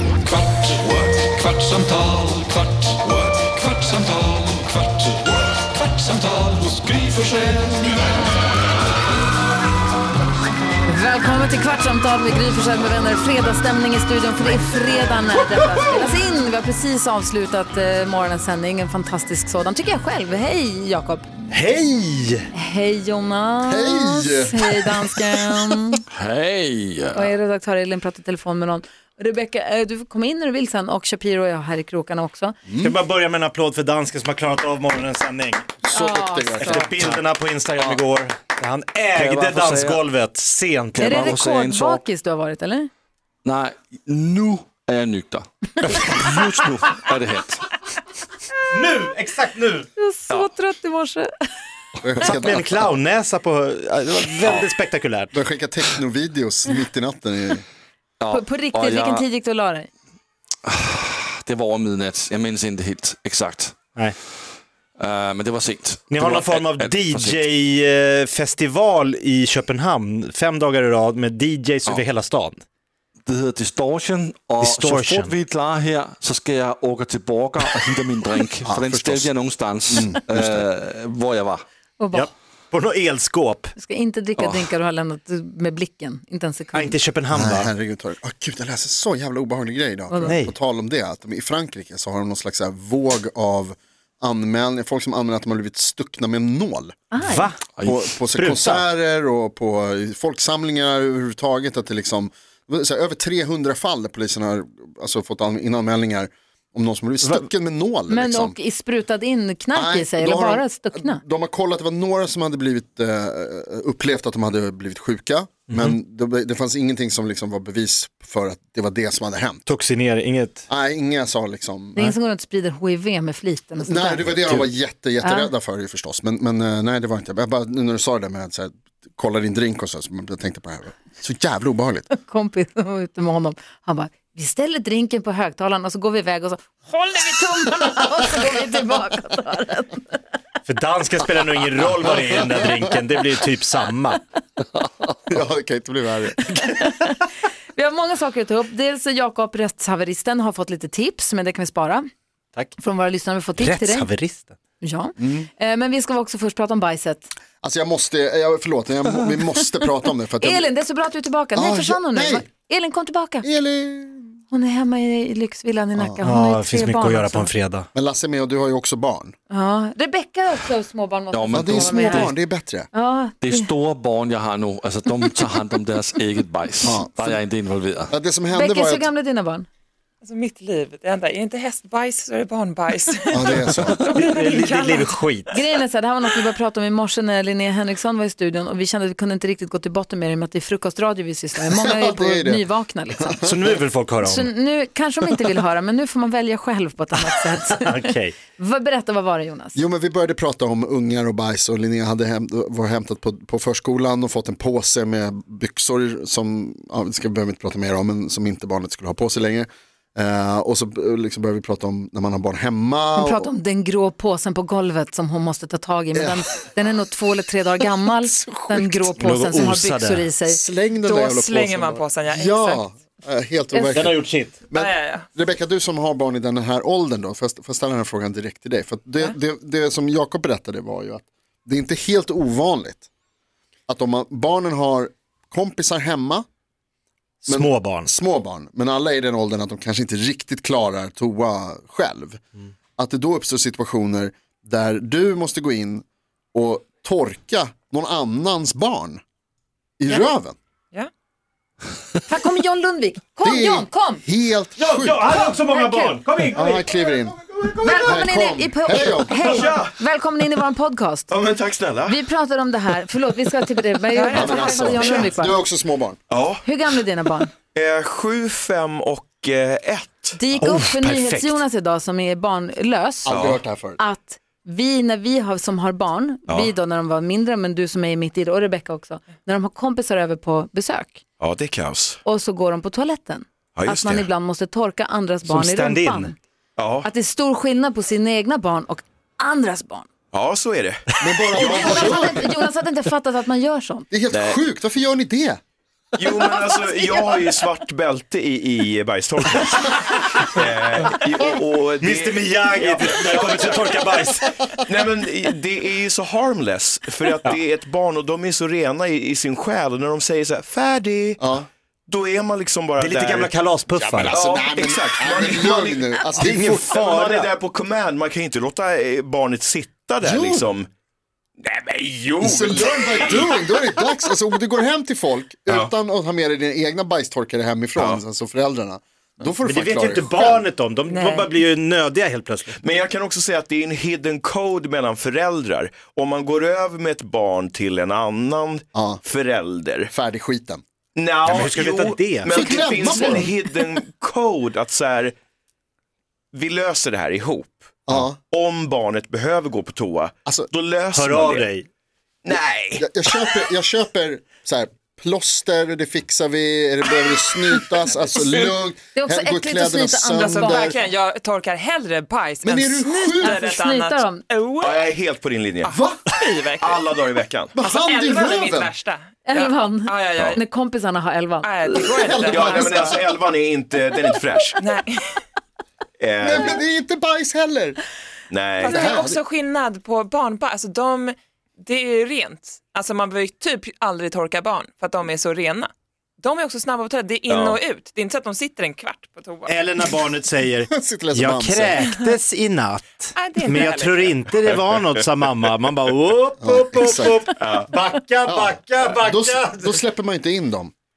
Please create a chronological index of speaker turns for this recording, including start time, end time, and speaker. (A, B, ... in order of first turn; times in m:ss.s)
0:00.2-0:08.0 A
0:10.8-0:21.2 B
0:21.5-0:22.4 C
0:22.5-0:26.0 B
0:23.6-0:25.6 D
0:26.1-0:27.3 E
0:27.1-0:32.6 B
0:32.7-0:32.9 D
0:32.8-0:35.7 C
0:35.8-0:37.2 D
0:35.9-0:36.9 B
0:36.6-0:41.4 C
0:39.1-0:40.0 E
0:40.9-0:42.0 E
0:41.0-0:42.9 B
0:43.4-0:47.7 E
0:48.7-0:49.9 C
0:50.0-0:51.3 B
0:52.0-0:52.8 D
0:52.2-0:55.3 C
0:55.3-0:57.6 D
0:58.2-0:59.2 E
0:58.3-0:59.9 B
1:00.6-1:03.8 E
1:05.0-1:07.4 E
1:06.1-1:12.6 C
1:13.2-1:21.6 E
1:14.6-1:15.3 C
1:18.6-1:19.3 D
1:19.9-1:20.7 D
1:22.0-1:22.3 B
1:22.1-1:23.7 C
1:23.8-1:27.0 B
1:24.4-1:24.7 E
1:26.7-1:27.7 C
1:27.3-1:37.1 D
1:30.1-1:30.4 B
1:30.2-1:30.5 C
1:37.1-1:37.5 B
1:37.2-1:37.7 C
1:37.8-1:38.1 E
1:37.8-1:48.6 D
1:38.3-1:38.8 C
1:48.1-1:51.2 B
1:49.7-1:59.6 D
1:55.7-1:56.0 C
1:59.6-2:00.6 C
2:00.7-2:02.0 D
2:02.0-2:04.4 B
2:03.8-2:12.0 D
2:05.2-2:05.5 B
2:12.1-2:20.2 B
2:20.7-2:24.2 C
2:25.3-2:26.4 D
2:26.6-2:27.2 B
2:27.7-2:32.0 B
2:32.8-2:34.1 B
2:33.6-2:34.6 C
2:34.8-2:37.3 B
2:35.2-2:35.5 D
2:37.6-2:40.7 D
2:40.4-2:43.4 B
2:41.5-2:42.5 D
2:43.4-2:44.3 D
2:44.5-2:47.5 B
2:46.2-2:47.8 C
2:47.9-2:49.3 D
2:49.5-2:52.3 B
2:51.3-2:52.3 E
2:51.5-2:52.9 D
2:52.9-2:53.7 B
2:53.4-2:58.1 E
2:56.8-2:57.4 D
2:58.1-2:59.1 D
2:58.5-2:59.7 B
3:00.2-3:05.2 F
3:03.3-3:04.0 D
3:03.8-3:05.5 C
3:05.5-3:13.4 B
3:11.7-3:13.8 D
3:13.4-3:14.5 C
3:14.2-3:19.8 B
3:17.7-3:18.4 C
3:19.7-3:33.5 D
3:33.2-3:40.6 B
3:36.1-3:36.4 D
3:38.4-3:39.1 D
3:39.2-3:40.2 C
3:40.4-3:53.0 D
3:41.0-3:42.9 F
3:43.8-3:44.6 C
3:44.7-3:45.3 F
3:53.9-3:56.4 D
3:57.4-3:58.1 C
3:57.5-4:02.4 D
4:03.0-4:09.2 D
4:10.0-4:10.6 D
4:12.3-4:14.2 B
4:13.4-4:15.3 D
4:14.8-4:18.1 C
4:15.5-4:16.3 B
4:16.5-4:17.4 D
4:17.8-4:21.3 B
4:17.9-4:19.5 D
4:19.3-4:20.0 G
4:19.4-4:19.7 C
4:21.3-4:22.2 G
4:22.0-4:25.6 B
4:24.1-4:25.1 F
4:24.3-4:26.2 D
4:24.9-4:25.3 G
4:26.3-4:26.9 G
4:26.6-4:27.5 B
4:27.7-4:31.6 G
4:30.4-4:33.4 B
4:33.2-4:34.0 D
4:33.3-4:33.6 G
4:34.0-4:41.2 B
4:41.4-4:42.2 G
4:42.2-4:46.4 B
4:43.8-4:44.3 G
4:45.4-4:46.3 C
4:46.8-4:47.1 G
4:47.0-4:50.1 B
4:50.3-4:52.1 G
4:51.2-4:52.4 D
4:51.5-4:54.1 B
4:54.1-4:55.6 D
4:54.3-4:54.6 G
4:56.2-5:04.1 G
5:02.0-5:04.6 C
5:04.8-5:11.4 G
5:11.4-5:11.7 D
5:12.1-5:13.5 G
5:13.0-5:14.3 C
5:13.9-5:16.9 D
5:14.2-5:20.9 G
5:16.4-5:17.5 C
5:20.2-5:20.7 D
5:21.6-5:23.7 G
5:22.4-5:30.7 D
5:28.0-5:28.2 G
5:29.6-5:32.8 C
5:31.1-5:31.5 F
5:32.8-5:40.1 G
5:38.9-5:39.2 D
5:40.1-5:40.8 D
5:41.1-5:45.3 G
5:41.4-5:43.2 C
5:42.5-5:43.5 D
5:46.5-5:51.6 G
5:48.1-5:48.4 D
5:51.1-5:51.9 C
5:52.4-5:53.6 G
5:52.5-6:01.0 D
5:59.1-6:00.9 B
6:00.3-6:05.1 F
6:02.6-6:03.6 D
6:03.4-6:04.4 B
6:04.8-6:06.0 G
6:05.8-6:06.2 D
6:06.3-6:07.2 F
6:06.8-6:07.7 G
6:07.7-6:08.9 D
6:07.8-6:10.6 F
6:09.5-6:11.7 B
6:11.6-6:13.1 F
6:11.9-6:13.1 D
6:12.3-6:13.2 B
6:12.4-6:14.8 G
6:14.8-6:15.2 F
6:16.2-6:16.8 G
6:16.4-6:18.0 D
6:18.5-6:19.1 G
6:18.8-6:29.8 F
6:18.9-6:19.4 D
6:27.5-6:27.8 G
6:29.6-6:40.0 C
6:30.9-6:32.1 D
6:33.4-6:34.4 F
6:34.5-6:35.6 G
6:36.6-6:37.5 D
6:37.5-6:37.9 G
6:38.4-6:40.9 D